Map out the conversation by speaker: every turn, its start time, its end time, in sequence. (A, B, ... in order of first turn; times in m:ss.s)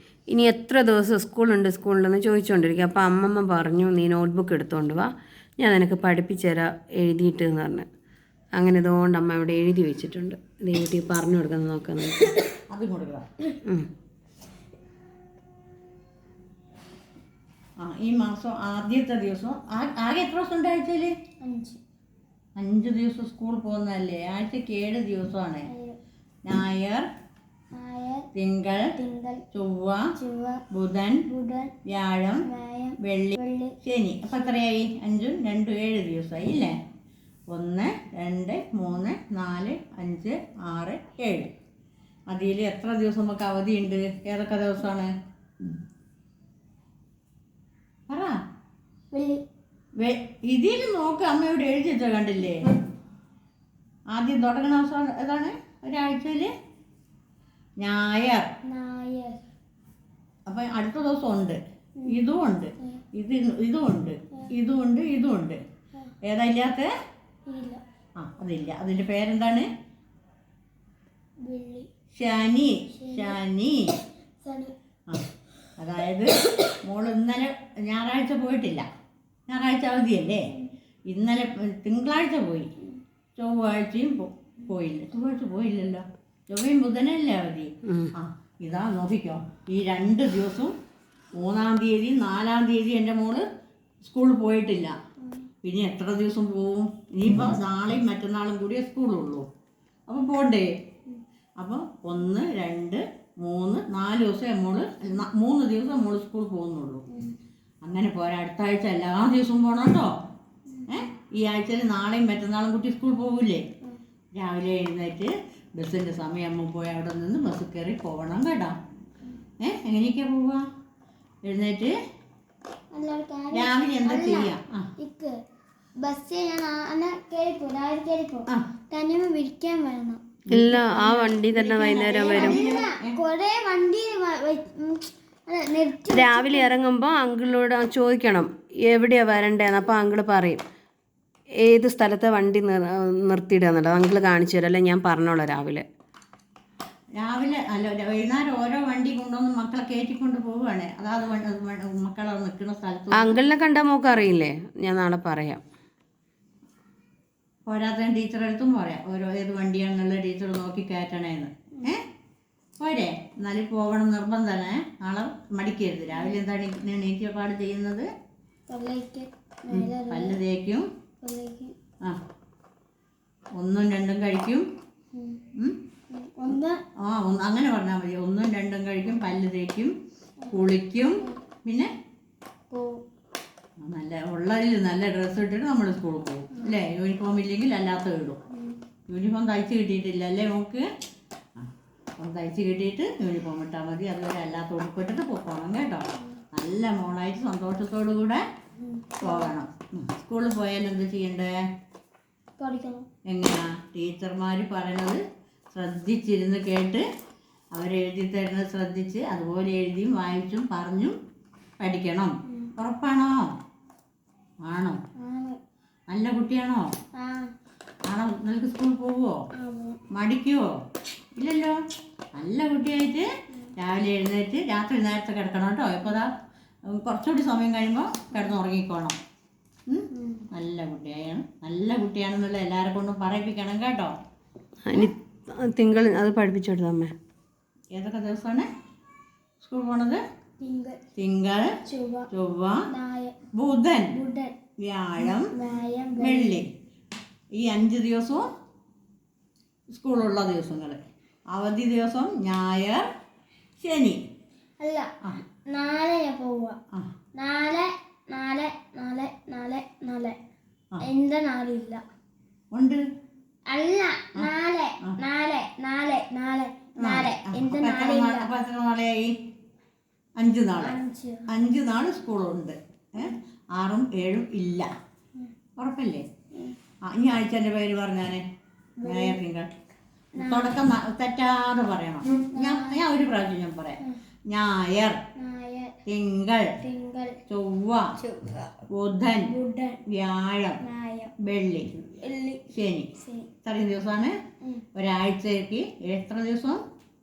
0:00.3-0:07.8 A
0:08.5-0:12.3 A
0:12.7-0:13.3 B
0:17.8-0:21.1 B
0:21.4-0:21.8 C
0:22.6-0:25.7 B
0:25.7-0:26.0 C
0:26.4-0:27.1 B
0:27.7-0:28.3 C
0:28.3-0:28.9 B
0:28.9-0:29.4 C
0:29.5-0:30.1 B
0:30.1-0:30.6 C
0:30.7-0:31.2 B
0:31.3-0:31.7 C
0:31.8-0:32.4 B
0:32.4-0:33.8 C
0:33.0-0:36.8 B
0:37.5-0:41.5 B
0:42.3-0:45.1 B
0:48.1-0:48.4 B
0:49.1-0:49.4 C
0:50.0-0:52.7 B
0:54.1-0:56.5 B
0:57.8-0:58.5 B
0:58.7-0:59.4 C
1:00.5-1:05.6 B
1:02.0-1:02.2 C
1:06.2-1:06.9 B
1:07.5-1:07.8 C
1:08.2-1:09.7 B
1:11.4-1:11.9 C
1:12.1-1:13.8 B
1:12.9-1:13.4 C
1:14.4-1:14.7 C
1:15.8-1:18.8 B
1:19.5-1:20.5 B
1:21.1-1:22.7 B
1:23.4-1:30.7 B
1:27.9-1:28.1 A
1:31.3-1:33.4 B
1:34.0-1:35.0 B
1:35.6-1:39.4 B
1:40.1-1:40.7 B
1:41.6-1:47.0 B
1:47.1-1:47.3 C
1:47.8-1:50.1 B
1:50.7-1:51.0 C
1:50.9-1:53.6 B
1:54.4-1:58.8 B
1:59.6-2:00.6 B
2:01.4-2:01.9 B
2:02.9-2:05.3 C
2:03.5-2:04.9 B
2:06.0-2:10.2 C
2:10.4-2:13.2 B
2:10.5-2:12.7 A
2:12.2-2:16.7 C
2:16.1-2:20.6 A
2:21.6-2:25.8 A
2:27.2-2:33.4 B
2:33.1-2:35.6 A
2:37.6-2:42.0 B
2:42.8-2:48.1 B
2:48.7-2:50.4 C
2:49.7-2:50.8 B
2:51.2-2:51.7 C
2:53.6-2:54.6 B
2:55.1-2:55.4 C
2:56.1-2:56.8 C
2:56.5-2:59.9 B
3:00.5-3:01.9 B
3:02.7-3:03.0 C
3:03.8-3:08.4 B
3:08.5-3:08.8 C
3:09.1-3:10.8 B
3:11.6-3:18.4 B
3:18.8-3:19.5 C
3:19.2-3:21.5 B
3:22.6-3:23.0 C
3:23.3-3:25.2 B
3:25.7-3:27.0 B
3:27.7-3:31.2 B
3:31.8-3:33.5 B
3:34.6-3:35.0 B
3:35.2-3:35.6 C
3:36.1-3:36.9 B
3:37.2-3:37.5 C
3:38.0-3:39.4 B
3:39.6-3:40.0 C
3:40.1-3:40.7 B
3:41.4-3:41.8 B
3:42.4-3:43.3 B
3:43.8-3:46.3 B
3:46.9-3:49.2 B
3:49.9-3:54.1 B
3:50.1-3:50.5 C
3:54.8-3:57.1 A
3:57.9-3:58.7 B
3:59.6-4:00.2 B
4:00.6-4:01.0 C
4:01.2-4:01.7 B
4:01.8-4:02.3 C
4:02.3-4:02.8 B
4:02.9-4:03.4 C
4:03.5-4:04.1 B
4:04.1-4:04.5 C
4:04.8-4:05.5 B
4:05.4-4:06.6 C
4:06.2-4:06.7 B
4:07.6-4:08.5 B
4:09.9-4:11.0 B
4:11.5-4:13.1 B
4:13.8-4:14.2 B
4:14.8-4:15.1 C
4:15.7-4:16.8 C
4:17.4-4:20.4 C
4:21.0-4:22.0 C
4:22.7-4:23.0 B
4:23.7-4:28.5 C
4:27.0-4:29.4 B
4:30.4-4:31.0 B
4:30.8-4:31.5 C
4:31.5-4:34.9 B
4:35.8-4:36.2 B
4:37.0-4:38.4 B
4:39.0-4:39.4 C
4:39.0-4:39.7 B
4:40.4-4:40.8 C
4:40.4-4:45.2 B
4:42.5-4:43.0 C
4:45.4-4:46.0 C
4:46.0-4:46.7 B
4:46.8-4:47.4 C
4:47.5-4:48.0 B
4:48.2-4:48.7 C
4:48.9-4:49.5 B
4:49.4-4:50.0 C
4:50.1-4:50.8 B
4:50.8-4:51.3 C
4:51.4-4:51.9 B
4:52.0-4:53.5 C
4:52.7-4:53.1 B
4:53.6-4:54.4 B
4:54.9-4:56.8 B